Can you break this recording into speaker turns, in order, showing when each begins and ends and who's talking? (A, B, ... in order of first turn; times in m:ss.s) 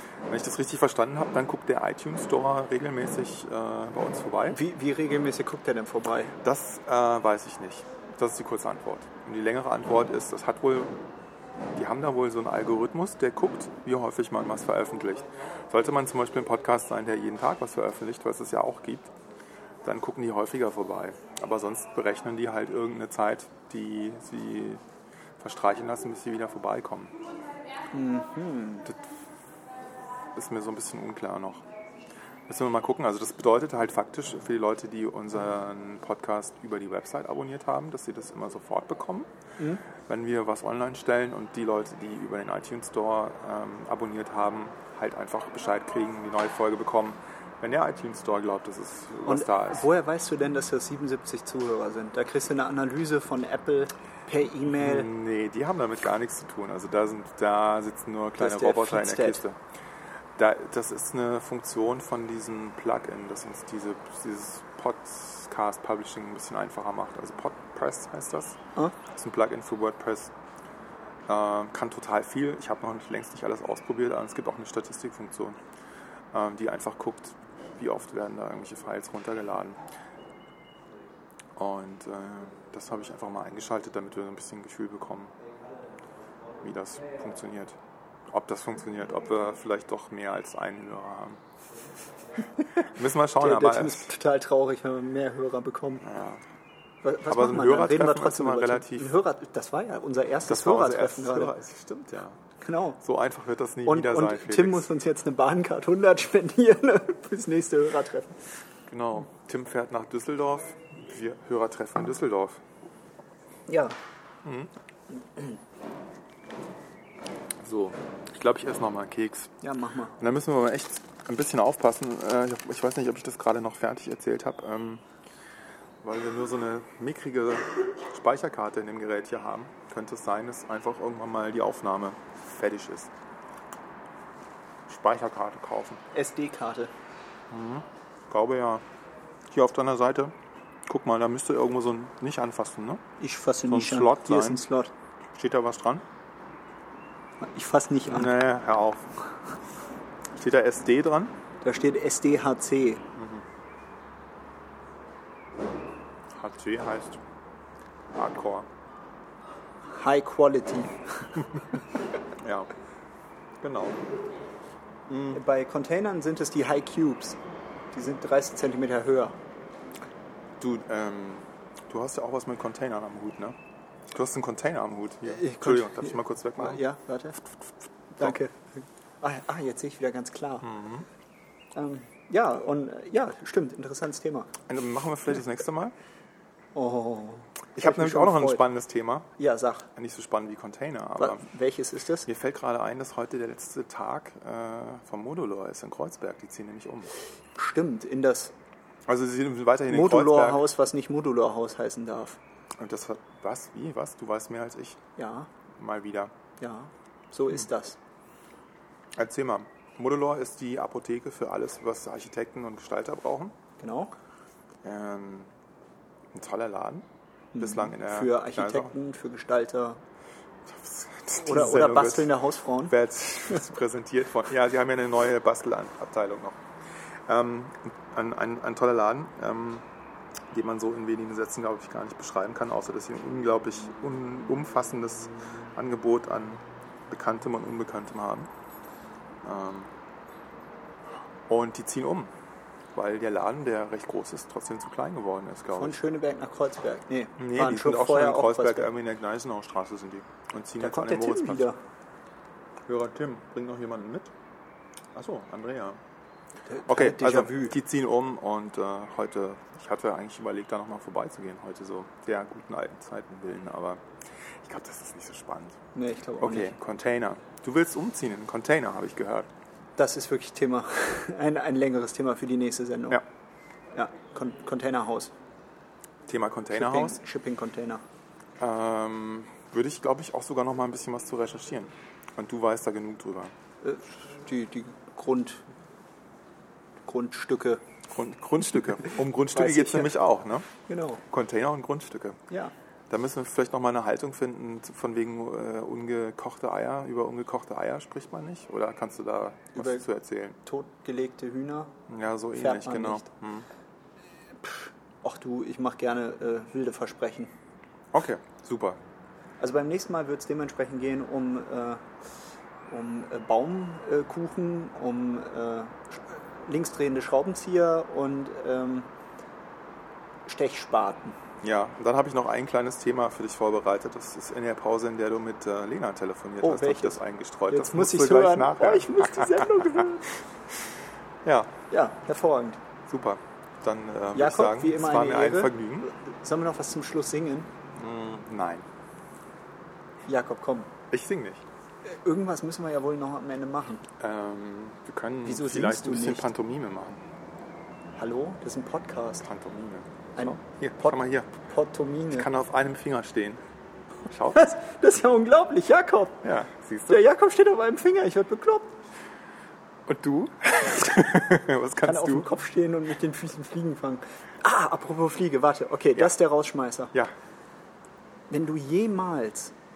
0:00.3-0:04.6 A
0:04.5-0:06.3 B
0:06.4-0:11.0 A
0:11.8-0:19.1 A
0:19.8-0:24.8 A
0:25.4-0:27.1 A
0:27.9-0:28.9 B
0:30.3-0:31.6 A
0:32.5-0:39.3 A
0:40.0-0:49.9 A
0:49.2-0:55.1 B
0:54.7-0:59.6 A
0:58.4-0:59.4 B
1:00.4-1:10.3 A
1:11.3-1:15.6 A
1:16.3-1:19.8 A
1:21.6-1:25.3 A
1:26.6-1:31.4 A
1:32.8-1:34.1 A
1:33.4-1:36.0 B
1:36.0-1:36.4 A
1:37.0-1:41.6 B
1:37.2-1:39.2 A
1:40.4-1:42.4 A
1:42.6-1:43.0 B
1:43.0-1:44.9 A
1:43.8-1:48.4 B
1:48.9-1:52.6 A
1:53.7-1:54.0 B
1:54.4-1:54.7 A
1:57.6-1:59.5 A
1:59.6-2:00.1 B
2:00.2-2:05.0 A
2:06.0-2:13.1 A
2:14.9-2:16.0 A
2:16.1-2:16.9 B
2:17.5-2:18.8 A
2:19.5-2:20.3 A
2:20.8-2:23.0 A
2:23.2-2:24.9 B
2:23.7-2:24.6 A
2:25.3-2:26.0 A
2:27.4-2:28.3 B
2:28.1-2:29.1 A
2:30.3-2:31.3 A
2:31.6-2:33.0 B
2:33.2-2:33.4 A
2:36.3-2:37.2 A
2:38.1-2:38.7 A
2:39.9-2:41.4 B
2:42.4-2:42.7 A
2:43.6-2:44.0 A
2:45.1-2:45.4 A
2:45.3-2:47.4 B
2:47.9-2:49.4 B
2:50.6-2:53.6 A
2:54.1-2:56.8 A
2:55.3-2:57.4 B
2:57.5-2:58.4 A
2:58.2-3:00.7 B
3:00.6-3:01.0 A
3:01.7-3:04.5 B
3:04.7-3:05.9 A
3:06.7-3:08.6 B
3:07.7-3:09.3 A
3:09.4-3:09.9 B
3:09.9-3:11.4 A
3:11.2-3:12.3 B
3:12.2-3:17.1 A
3:17.5-3:18.5 B
3:19.1-3:20.7 A
3:19.9-3:22.4 B
3:22.8-3:25.0 A
3:25.2-3:25.5 B
3:25.8-3:26.3 A
3:26.6-3:28.0 B
3:29.1-3:33.6 A
3:33.8-3:34.1 B
3:34.8-3:35.5 A
3:36.3-3:37.0 A
3:37.5-3:40.0 B
3:37.6-3:38.9 A
3:40.7-3:42.3 A
3:41.4-3:42.9 B
3:42.8-3:46.6 A
3:47.3-3:49.8 A
3:50.5-3:58.5 A
3:59.4-3:59.9 A
4:01.5-4:02.3 A
4:02.9-4:06.0 A
4:05.8-4:08.9 B
4:07.4-4:11.7 A
4:10.8-4:11.8 B
4:12.9-4:14.3 A
4:15.1-4:16.0 A
4:16.7-4:17.8 B
4:16.9-4:24.0 A
4:24.6-4:25.8 A
4:25.9-4:26.7 B
4:26.4-4:29.5 A
4:30.0-4:33.2 B
4:33.9-4:35.3 B
4:36.3-4:37.2 A
4:36.7-4:38.0 B
4:38.6-4:43.5 A
4:43.8-4:45.6 B
4:47.0-4:47.8 B
4:48.1-4:50.7 A
4:49.5-4:50.2 B
4:50.9-4:51.2 B
4:51.3-4:52.4 A
4:53.1-5:00.6 A
4:59.8-5:00.0 B
5:00.6-5:01.9 B
5:02.1-5:03.7 A
5:02.5-5:03.3 B
5:04.6-5:07.5 B
5:08.1-5:09.0 A
5:09.6-5:12.0 B
5:12.9-5:19.1 B
5:20.4-5:21.4 B
5:21.6-5:30.0 A
5:26.6-5:30.3 B
5:31.4-5:31.7 A
5:31.9-5:32.8 B
5:33.1-5:36.1 A
5:34.3-5:37.7 B
5:38.0-5:38.8 A
5:40.3-5:40.9 B
5:41.1-5:41.6 A
5:42.0-5:44.0 B
5:44.2-5:47.2 A
5:45.4-5:46.5 B
5:48.2-5:49.4 B
5:49.4-5:51.5 A
5:50.4-5:52.5 B
5:52.3-5:53.6 A
5:54.1-5:54.7 A
5:54.5-5:56.4 B
5:56.4-5:57.2 A
5:57.1-5:59.0 B
6:00.0-6:02.5 A
6:02.0-6:07.1 B
6:08.5-6:09.7 B